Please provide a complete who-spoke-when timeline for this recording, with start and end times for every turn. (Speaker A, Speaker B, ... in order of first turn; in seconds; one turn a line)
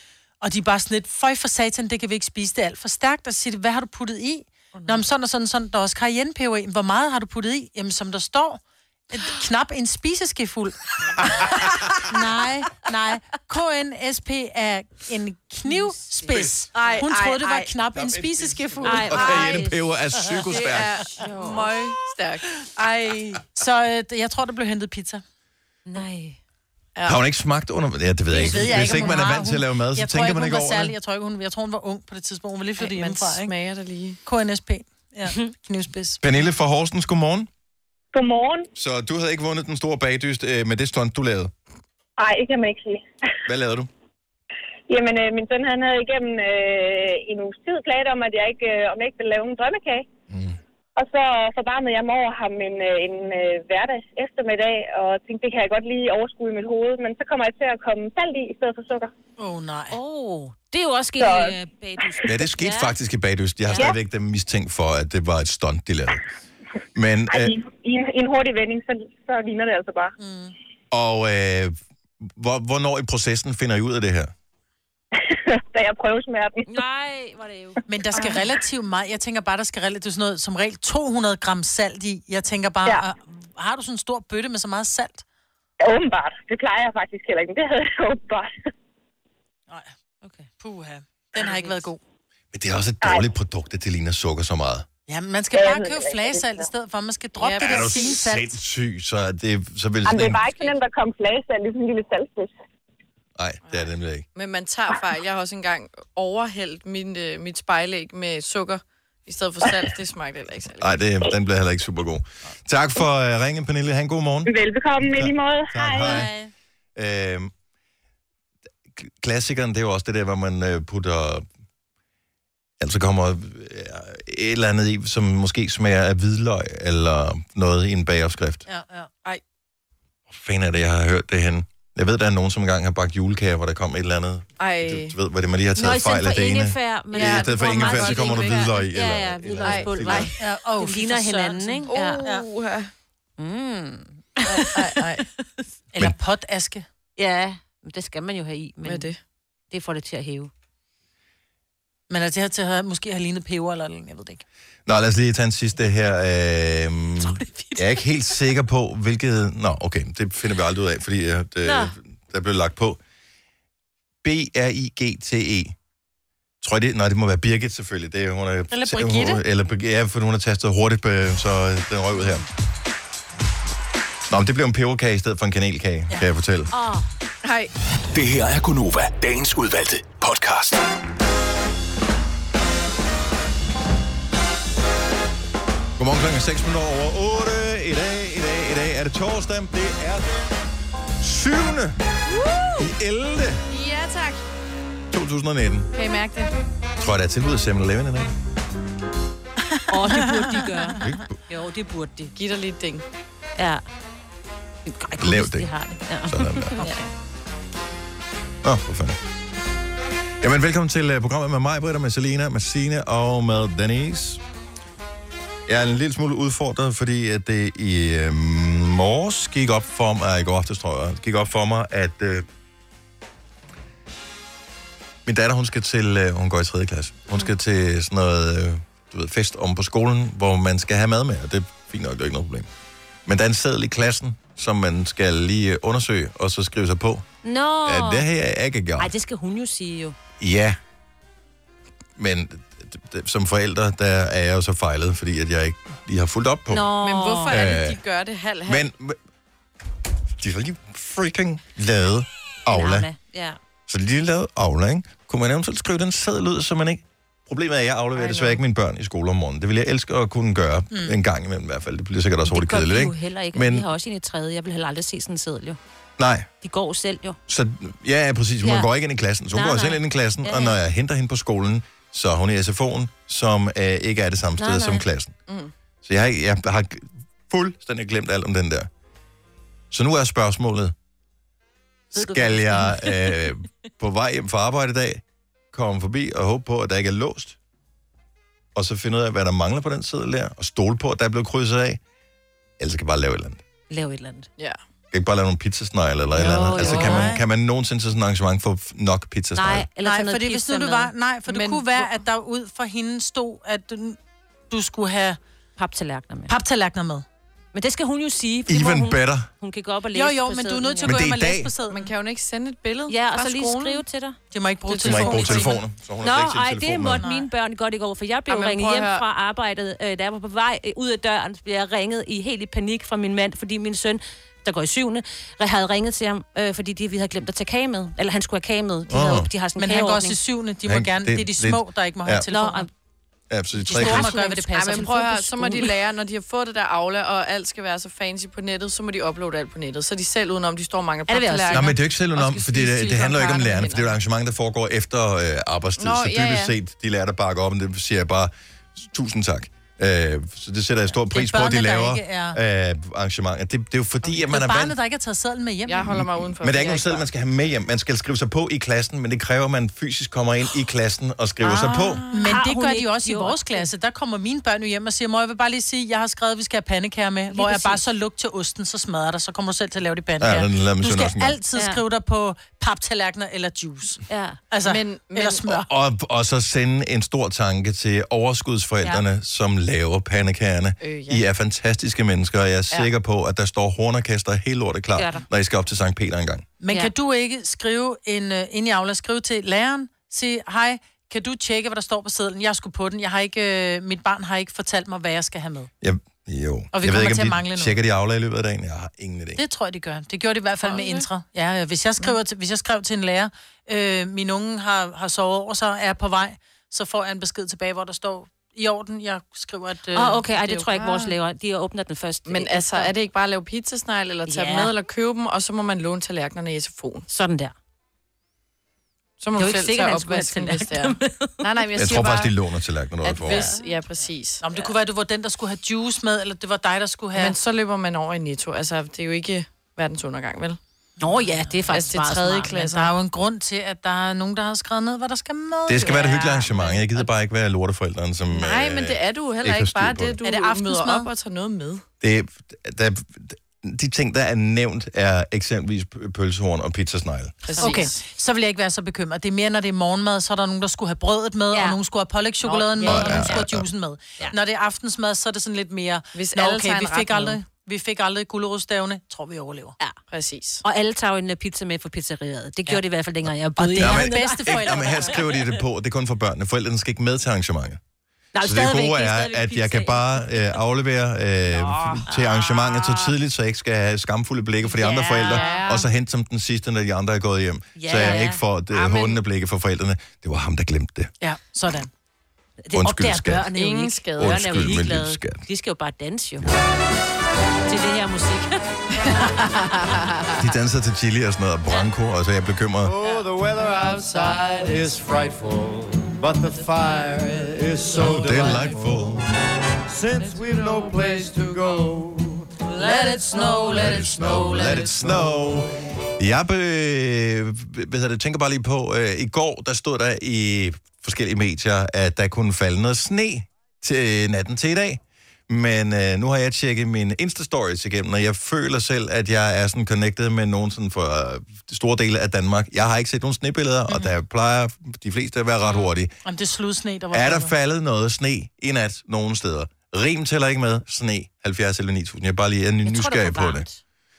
Speaker A: 0.4-11.4
Speaker A: 12.0-19.6
Speaker B: 15.7-17.1
Speaker C: 16.7-17.6
Speaker D: 17.9-21.0
Speaker B: 18.8-19.8
Speaker C: 20.5-22.7
Speaker A: 22.8-25.2
Speaker B: 25.9-26.4
Speaker D: 27.1-30.9
Speaker A: 28.3-33.5
Speaker C: 32.8-34.2
Speaker A: 34.2-36.2
Speaker D: 36.2-37.5
Speaker E: 38.1-38.7
Speaker D: 38.8-41.5
Speaker E: 42.2-43.0
Speaker D: 43.5-43.9
Speaker E: 44.9-50.0
Speaker D: 50.3-50.5
Speaker E: 51.0-59.1
Speaker A: 59.4-60.0
Speaker B: 59.9-62.9
Speaker E: 61.2-61.5
Speaker D: 62.2-66.2
Speaker B: 63.7-64.0
Speaker D: 66.9-67.5
Speaker E: 67.3-70.1
Speaker A: 70.2-70.5
Speaker D: 70.9-74.3
Speaker E: 75.2-76.6
Speaker B: 76.7-78.2
Speaker A: 77.9-85.2
Speaker E: 85.8-88.5
Speaker B: 90.2-90.5
Speaker A: 90.6-92.0
Speaker D: 92.5-94.8
Speaker A: 95.1-98.6
Speaker E: 95.5-96.6
Speaker C: 97.4-98.0
Speaker D: 97.6-100.5
Speaker E: 100.0-102.5
Speaker D: 103.3-104.2
Speaker C: 103.7-111.0
Speaker D: 110.8-116.3
Speaker E: 114.5-116.3
Speaker A: 116.0-116.5
Speaker D: 117.0-117.5
Speaker D: 119.0-121.4
Speaker D: 122.8-128.6
Speaker A: 128.7-129.1
Speaker D: 130.3-140.3
Speaker C: 134.6-135.1
Speaker B: 135.8-142.3
Speaker C: 137.1-138.6
Speaker C: 139.6-140.3
Speaker A: 140.4-142.4
Speaker C: 141.9-142.9
Speaker B: 143.4-144.8
Speaker C: 144.5-145.2
Speaker A: 145.9-146.8
Speaker B: 147.2-149.1
Speaker C: 148.8-149.2
Speaker B: 149.7-150.5
Speaker A: 152.1-154.4
Speaker D: 154.8-163.0
Speaker B: 157.2-158.0
Speaker B: 161.6-161.9
Speaker D: 164.2-165.7
Speaker D: 166.6-172.4
Speaker A: 168.7-169.4
Speaker D: 174.3-176.7
Speaker B: 176.7-177.0
Speaker C: 177.4-177.7
Speaker F: 178.1-180.8
Speaker D: 186.0-190.3
Speaker D: 191.2-192.0
Speaker D: 192.8-193.6
Speaker C: 193.7-194.4
Speaker D: 195.1-195.9
Speaker C: 195.9-196.5
Speaker D: 197.0-198.3
Speaker B: 199.9-202.3
Speaker D: 201.0-201.3
Speaker C: 202.3-203.0
Speaker B: 203.6-203.8
Speaker B: 204.9-206.7
Speaker D: 205.2-205.7
Speaker D: 206.3-206.7
Speaker C: 206.8-207.1
Speaker D: 208.6-209.2
Speaker D: 210.4-214.4
Speaker D: 215.7-222.4
Speaker D: 225.2-232.7
Speaker D: 233.2-237.3
Speaker B: 237.4-238.2
Speaker D: 237.8-239.1
Speaker B: 239.0-240.2
Speaker D: 240.4-240.8
Speaker D: 242.2-246.8
Speaker B: 246.7-247.6
Speaker C: 247.0-248.8
Speaker D: 247.5-248.0
Speaker D: 248.6-249.2
Speaker D: 250.4-253.1
Speaker B: 252.7-253.6
Speaker D: 253.9-263.9
Speaker C: 258.1-258.6
Speaker B: 262.5-265.8
Speaker D: 266.2-266.5
Speaker B: 266.6-267.4
Speaker D: 267.5-275.3
Speaker B: 269.5-270.8
Speaker B: 274.6-275.0
Speaker D: 276.0-278.9
Speaker D: 279.9-280.9
Speaker D: 282.1-287.6
Speaker B: 282.1-283.3
Speaker D: 288.7-292.0
Speaker D: 292.8-293.6
Speaker B: 293.9-294.5
Speaker D: 295.1-299.9
Speaker B: 296.3-297.3
Speaker A: 296.7-297.4
Speaker C: 296.9-297.1
Speaker B: 299.6-301.1
Speaker A: 300.0-304.2
Speaker C: 301.5-302.1
Speaker A: 304.7-305.4
Speaker B: 305.8-306.5
Speaker A: 306.5-307.2
Speaker B: 307.7-311.2
Speaker D: 308.7-309.5
Speaker A: 310.1-312.1
Speaker D: 311.0-311.7
Speaker C: 311.9-314.0
Speaker B: 313.1-314.4
Speaker A: 314.5-315.8
Speaker C: 314.9-315.7
Speaker D: 315.0-317.2
Speaker B: 316.2-330.4
Speaker A: 317.2-317.5
Speaker C: 318.5-319.2
Speaker D: 329.1-329.5
Speaker A: 329.8-332.9
Speaker D: 330.9-332.4
Speaker B: 332.5-332.9
Speaker D: 333.5-334.3
Speaker A: 333.9-335.9
Speaker B: 333.9-334.6
Speaker C: 334.4-344.1
Speaker B: 341.3-341.9
Speaker D: 341.7-354.9
Speaker C: 346.0-346.7
Speaker A: 351.3-352.6
Speaker A: 354.5-356.2
Speaker C: 355.9-357.2
Speaker D: 356.6-362.2
Speaker B: 361.9-363.9
Speaker A: 362.3-375.9
Speaker B: 367.5-368.0
Speaker D: 370.4-371.6
Speaker B: 371.7-372.0
Speaker B: 374.3-374.6
Speaker C: 374.8-375.6
Speaker D: 375.7-386.6
Speaker C: 381.0-381.4
Speaker B: 385.2-385.4
Speaker A: 386.8-395.9
Speaker D: 396.0-399.6
Speaker A: 396.9-397.9
Speaker A: 399.6-411.3
Speaker C: 400.8-401.2
Speaker B: 410.1-413.1
Speaker C: 412.5-417.2
Speaker B: 414.5-414.9
Speaker B: 417.3-417.7
Speaker C: 419.4-422.5
Speaker B: 419.6-421.6
Speaker D: 421.9-423.7
Speaker C: 423.2-424.6
Speaker B: 423.4-423.9
Speaker A: 424.6-427.5
Speaker C: 427.3-430.8
Speaker B: 431.2-432.8
Speaker A: 431.6-432.0
Speaker C: 431.9-433.1
Speaker A: 432.7-436.6
Speaker D: 435.9-440.4
Speaker C: 438.5-442.0
Speaker A: 440.4-441.3
Speaker D: 442.2-447.6
Speaker C: 447.6-448.1
Speaker A: 447.8-459.9
Speaker B: 451.7-452.0
Speaker C: 452.6-453.6
Speaker D: 453.0-453.9
Speaker C: 456.3-457.6
Speaker C: 460.3-460.8
Speaker B: 460.8-465.4
Speaker A: 463.8-465.4
Speaker D: 464.0-468.0
Speaker B: 468.5-470.7
Speaker D: 468.6-481.3
Speaker B: 472.3-473.3
Speaker B: 474.9-476.0
Speaker B: 478.0-478.6
Speaker C: 478.9-479.3
Speaker A: 481.4-482.1
Speaker B: 482.8-486.7
Speaker D: 482.9-483.7
Speaker C: 483.7-484.6
Speaker D: 484.4-485.6
Speaker B: 487.9-488.8
Speaker C: 489.8-490.5
Speaker D: 490.6-493.1
Speaker C: 493.2-495.4
Speaker G: 493.5-494.4
Speaker G: 494.9-498.7
Speaker C: 496.5-498.9
Speaker D: 498.1-499.4
Speaker G: 500.3-502.6
Speaker C: 500.3-502.1
Speaker C: 503.0-503.9
Speaker B: 503.5-505.0
Speaker D: 503.9-526.3
Speaker A: 526.4-527.7
Speaker D: 527.3-533.9
Speaker B: 533.0-534.0